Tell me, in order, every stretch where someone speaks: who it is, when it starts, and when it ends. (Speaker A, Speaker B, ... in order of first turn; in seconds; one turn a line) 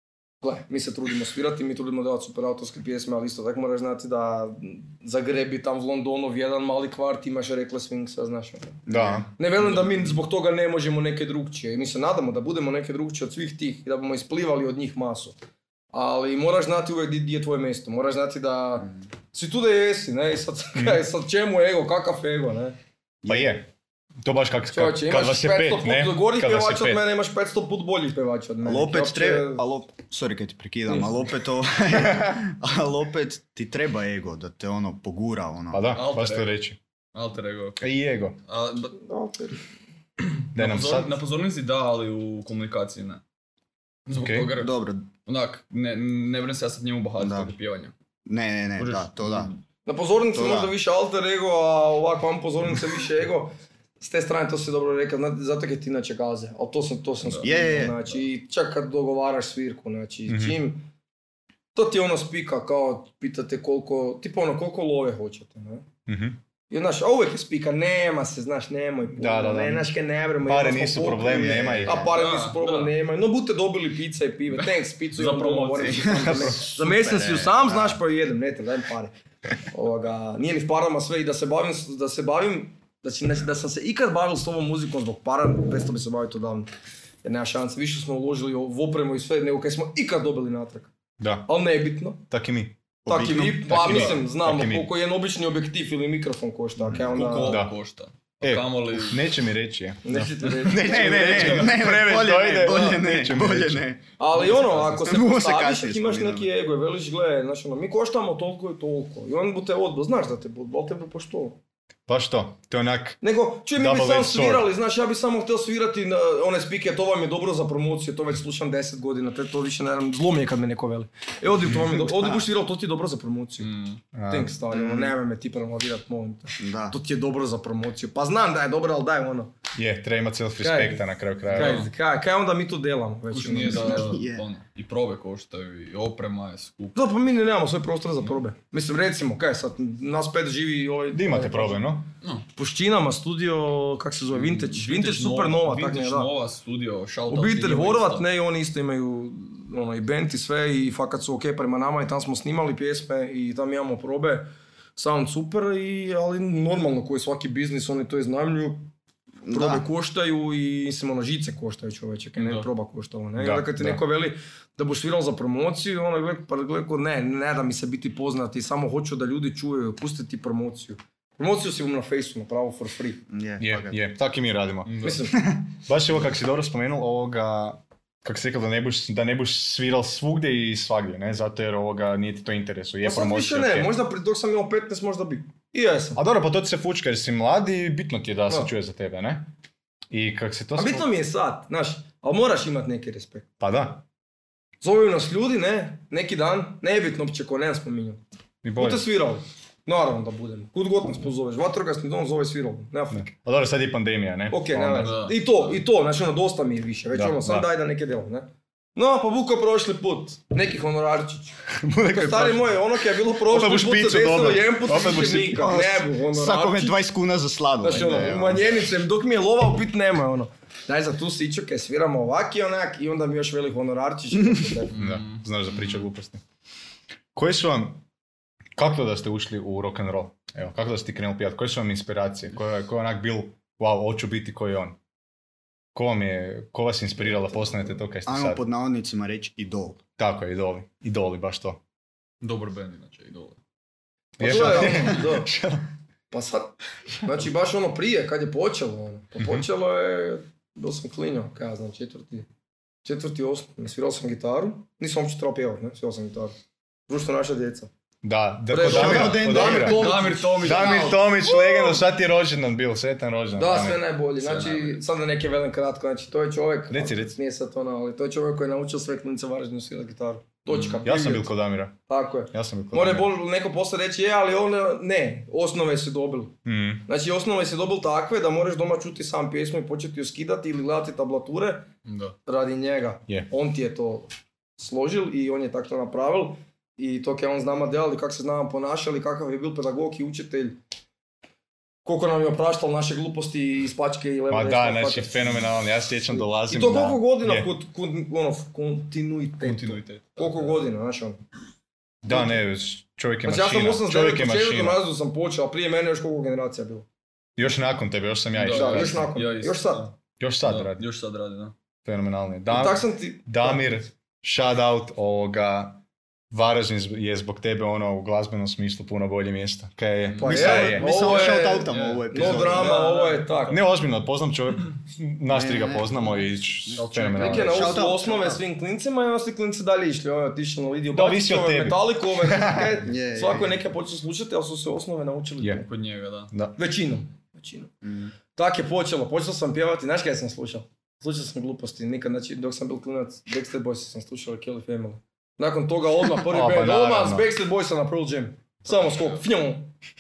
Speaker A: 0.4-8.9
Speaker B: 8.9-9.2
Speaker C: 8.9-9.3
Speaker A: 9.4-15.4
Speaker A: 15.9-22.8
Speaker C: 20.8-21.0
Speaker B: 23.2-23.5
Speaker C: 23.3-23.7
Speaker C: 24.2-27.0
Speaker A: 24.7-29.6
Speaker B: 28.6-35.9
Speaker C: 35.7-36.8
Speaker D: 35.9-37.9
Speaker C: 37.8-38.4
Speaker D: 38.5-39.0
Speaker A: 39.0-39.6
Speaker D: 40.2-43.2
Speaker C: 40.5-41.2
Speaker D: 44.1-47.9
Speaker C: 44.1-44.5
Speaker B: 44.5-45.1
Speaker B: 47.2-47.5
Speaker B: 48.3-49.5
Speaker D: 48.8-49.6
Speaker A: 49.9-60.9
Speaker B: 50.3-50.7
Speaker D: 57.3-57.8
Speaker B: 57.4-58.0
Speaker C: 60.3-60.6
Speaker A: 61.7-65.8
Speaker C: 66.1-66.4
Speaker A: 66.7-79.1
Speaker C: 69.1-72.1
Speaker B: 71.2-72.1
Speaker D: 72.1-72.9
Speaker D: 74.6-76.6
Speaker B: 75.9-78.0
Speaker A: 79.7-86.7
Speaker A: 87.2-90.9
Speaker C: 91.2-91.5
Speaker A: 91.5-92.2
Speaker C: 92.3-92.8
Speaker B: 93.0-94.2
Speaker A: 93.1-97.6
Speaker C: 93.7-94.9
Speaker D: 97.1-99.3
Speaker C: 97.4-97.8
Speaker C: 98.4-103.9
Speaker A: 100.0-101.7
Speaker D: 100.1-100.6
Speaker B: 100.7-104.0
Speaker A: 102.7-103.0
Speaker A: 104.2-111.6
Speaker D: 104.5-104.8
Speaker B: 104.7-106.5
Speaker C: 112.1-113.2
Speaker A: 113.2-123.7
Speaker C: 113.7-114.7
Speaker B: 122.0-122.5
Speaker D: 123.6-124.0
Speaker C: 124.1-124.5
Speaker A: 124.3-129.5
Speaker B: 124.7-125.1
Speaker B: 126.6-127.0
Speaker C: 129.8-131.9
Speaker A: 130.6-134.2
Speaker D: 131.5-131.9
Speaker D: 133.3-137.0
Speaker B: 133.7-134.5
Speaker A: 136.9-141.9
Speaker C: 141.1-142.1
Speaker A: 142.6-146.3
Speaker D: 144.3-148.2
Speaker A: 147.3-158.9
Speaker B: 159.5-159.9
Speaker A: 159.5-173.2
Speaker D: 162.4-162.7
Speaker C: 163.4-164.0
Speaker B: 173.3-174.0
Speaker C: 173.6-175.0
Speaker D: 174.9-175.3
Speaker A: 175.0-175.4
Speaker C: 175.8-183.9
Speaker A: 183.0-186.2
Speaker C: 186.2-189.5
Speaker C: 190.1-191.1
Speaker A: 190.8-193.5
Speaker C: 193.6-194.0
Speaker A: 194.8-198.2
Speaker C: 198.6-199.1
Speaker A: 198.8-203.3
Speaker C: 203.1-205.2
Speaker A: 204.5-211.6
Speaker D: 204.9-205.8
Speaker C: 207.1-207.7
Speaker C: 211.7-212.9
Speaker A: 212.1-217.0
Speaker C: 213.4-215.8
Speaker B: 215.4-218.8
Speaker A: 217.8-224.9
Speaker D: 224.9-226.1
Speaker C: 224.9-226.4
Speaker C: 227.3-228.0
Speaker C: 228.8-235.0
Speaker C: 235.9-238.6
Speaker A: 237.4-237.8
Speaker B: 238.3-240.0
Speaker C: 240.2-241.8
Speaker D: 242.4-243.6
Speaker C: 244.4-245.9
Speaker A: 244.4-245.5
Speaker B: 244.4-245.2
Speaker A: 246.3-252.5
Speaker C: 249.4-249.7
Speaker A: 253.0-256.6
Speaker A: 257.1-257.9
Speaker C: 258.2-264.0
Speaker A: 258.7-262.0
Speaker B: 258.8-260.2
Speaker D: 259.4-261.2
Speaker A: 263.6-271.5
Speaker D: 264.4-265.0
Speaker C: 266.9-267.4
Speaker D: 270.7-271.0
Speaker C: 271.0-272.0
Speaker A: 272.1-276.6
Speaker C: 272.5-273.3
Speaker C: 276.6-277.1
Speaker A: 277.1-281.9
Speaker D: 282.1-282.4
Speaker A: 282.5-290.8
Speaker A: 292.1-295.7
Speaker C: 294.5-297.7
Speaker A: 296.7-301.4
Speaker D: 299.6-300.8
Speaker C: 302.2-305.0
Speaker A: 302.3-302.6
Speaker A: 303.4-307.1
Speaker C: 307.6-309.3
Speaker D: 308.6-311.8
Speaker A: 308.7-310.1
Speaker C: 310.4-311.1
Speaker C: 312.1-321.3
Speaker A: 312.7-314.0
Speaker D: 320.3-323.5
Speaker B: 320.4-323.1
Speaker A: 320.4-323.8
Speaker C: 323.7-327.9
Speaker B: 325.5-328.6
Speaker D: 326.9-327.9
Speaker A: 327.4-335.9
Speaker C: 331.1-333.1
Speaker B: 333.0-333.8
Speaker C: 335.6-335.9
Speaker D: 335.9-336.5
Speaker A: 336.8-337.9
Speaker B: 338.0-338.3
Speaker A: 338.5-349.9
Speaker C: 346.5-347.5